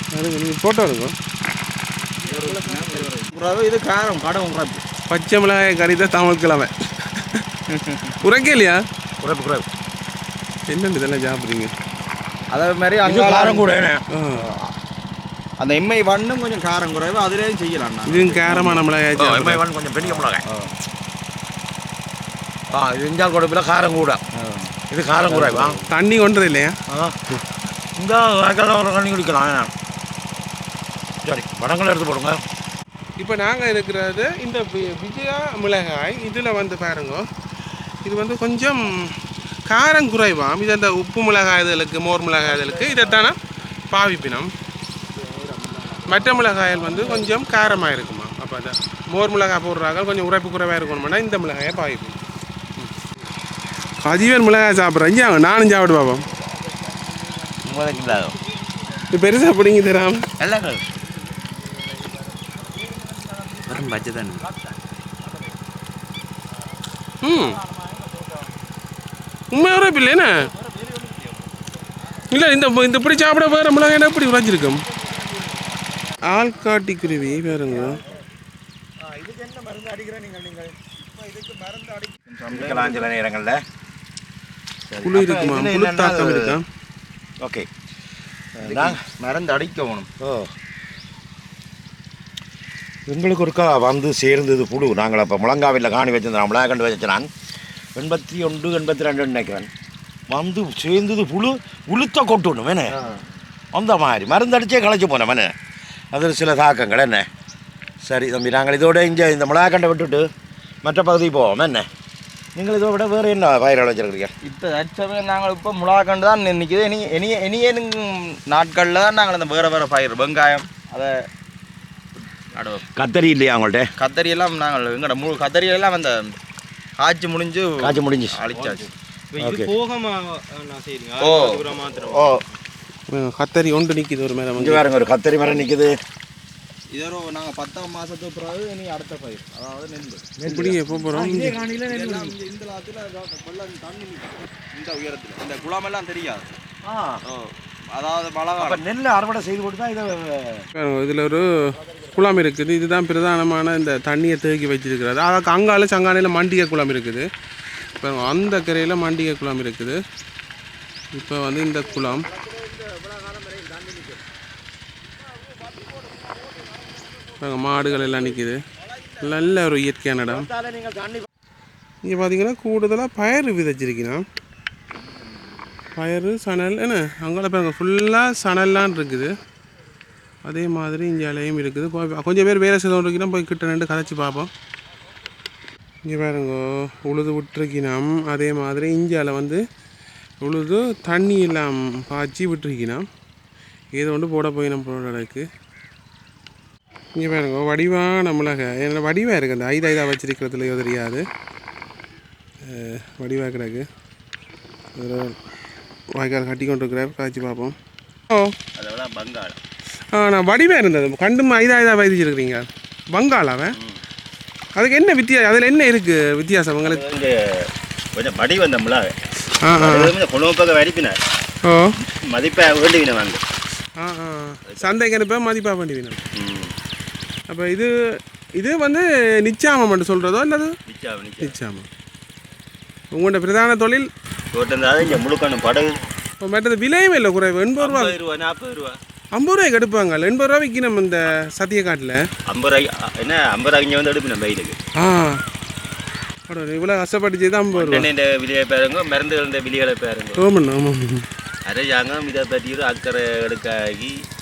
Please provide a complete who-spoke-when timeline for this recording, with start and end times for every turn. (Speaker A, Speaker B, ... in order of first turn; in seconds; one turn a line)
Speaker A: 0.1-1.1
Speaker B: 2.2-4.8
Speaker A: 5.1-7.5
Speaker B: 7.7-8.2
Speaker A: 8.2-8.8
Speaker C: 9.2-9.7
Speaker A: 10.7-11.7
Speaker B: 12.5-13.7
Speaker C: 13.0-14.0
Speaker A: 14.1-14.5
Speaker B: 14.3-14.7
Speaker B: 15.6-18.8
Speaker A: 18.1-19.6
Speaker C: 19.1-20.4
Speaker B: 20.0-20.7
Speaker C: 22.7-24.2
Speaker B: 24.4-24.7
Speaker C: 24.9-25.8
Speaker B: 25.4-25.6
Speaker A: 25.9-26.8
Speaker C: 26.9-27.1
Speaker C: 28.0-29.7
Speaker C: 31.2-32.4
Speaker A: 33.2-37.2
Speaker A: 38.0-39.1
Speaker A: 39.7-43.4
Speaker B: 42.4-43.3
Speaker A: 43.9-44.5
Speaker B: 45.1-47.9
Speaker A: 46.1-52.2
Speaker A: 54.0-56.2
Speaker D: 57.7-58.3
Speaker A: 59.1-60.2
Speaker D: 60.4-60.7
Speaker D: 63.7-64.4
Speaker A: 67.2-67.6
Speaker A: 69.5-70.4
Speaker B: 70.7-71.2
Speaker A: 72.3-74.8
Speaker A: 76.3-78.0
Speaker B: 81.1-83.1
Speaker C: 82.5-83.6
Speaker B: 84.9-85.2
Speaker A: 85.0-86.7
Speaker C: 85.1-86.5
Speaker C: 87.4-87.7
Speaker C: 88.6-89.0
Speaker B: 88.6-90.1
Speaker C: 90.2-90.5
Speaker C: 93.1-97.3
Speaker C: 98.0-99.7
Speaker C: 100.3-102.9
Speaker C: 103.7-105.5
Speaker C: 106.1-107.3
Speaker C: 108.0-110.3
Speaker C: 110.8-111.9
Speaker C: 112.5-114.3
Speaker B: 114.4-121.1
Speaker B: 122.4-122.8
Speaker C: 123.0-123.9
Speaker B: 124.0-126.3
Speaker B: 127.0-132.4
Speaker C: 127.8-128.4
Speaker C: 129.4-129.7
Speaker D: 131.2-131.5
Speaker A: 133.1-134.8
Speaker C: 134.6-135.9
Speaker B: 136.9-140.3
Speaker C: 140.4-142.3
Speaker A: 140.4-141.6
Speaker B: 141.8-146.6
Speaker C: 146.8-147.2
Speaker B: 147.3-148.8
Speaker C: 148.6-150.7
Speaker A: 150.7-157.3
Speaker A: 158.0-160.0
Speaker A: 161.1-162.3
Speaker A: 167.4-168.6
Speaker A: 169.2-170.5
Speaker C: 170.5-171.3
Speaker A: 172.0-174.2
Speaker A: 175.9-179.3
Speaker A: 180.4-184.5
Speaker A: 186.1-189.6
Speaker A: 190.4-193.0
Speaker A: 193.9-195.5
Speaker A: 197.2-201.2
Speaker A: 202.6-203.9
Speaker A: 204.9-205.4
Speaker A: 206.2-207.8
Speaker A: 208.3-208.5
Speaker D: 208.8-209.6
Speaker A: 210.1-213.8
Speaker A: 214.8-217.0
Speaker D: 216.8-219.2
Speaker A: 219.6-220.1
Speaker D: 219.7-221.2
Speaker A: 221.6-221.9
Speaker D: 222.3-223.4
Speaker A: 224.0-226.2
Speaker D: 226.4-226.7
Speaker A: 227.5-230.8
Speaker D: 230.9-231.6
Speaker A: 231.4-231.9
Speaker A: 233.1-234.1
Speaker D: 234.5-236.0
Speaker A: 236.4-238.2
Speaker D: 237.8-239.0
Speaker A: 239.3-242.2
Speaker D: 242.5-244.8
Speaker A: 245.0-245.4
Speaker A: 246.5-248.1
Speaker D: 247.7-250.5
Speaker A: 250.4-251.3
Speaker D: 251.7-254.2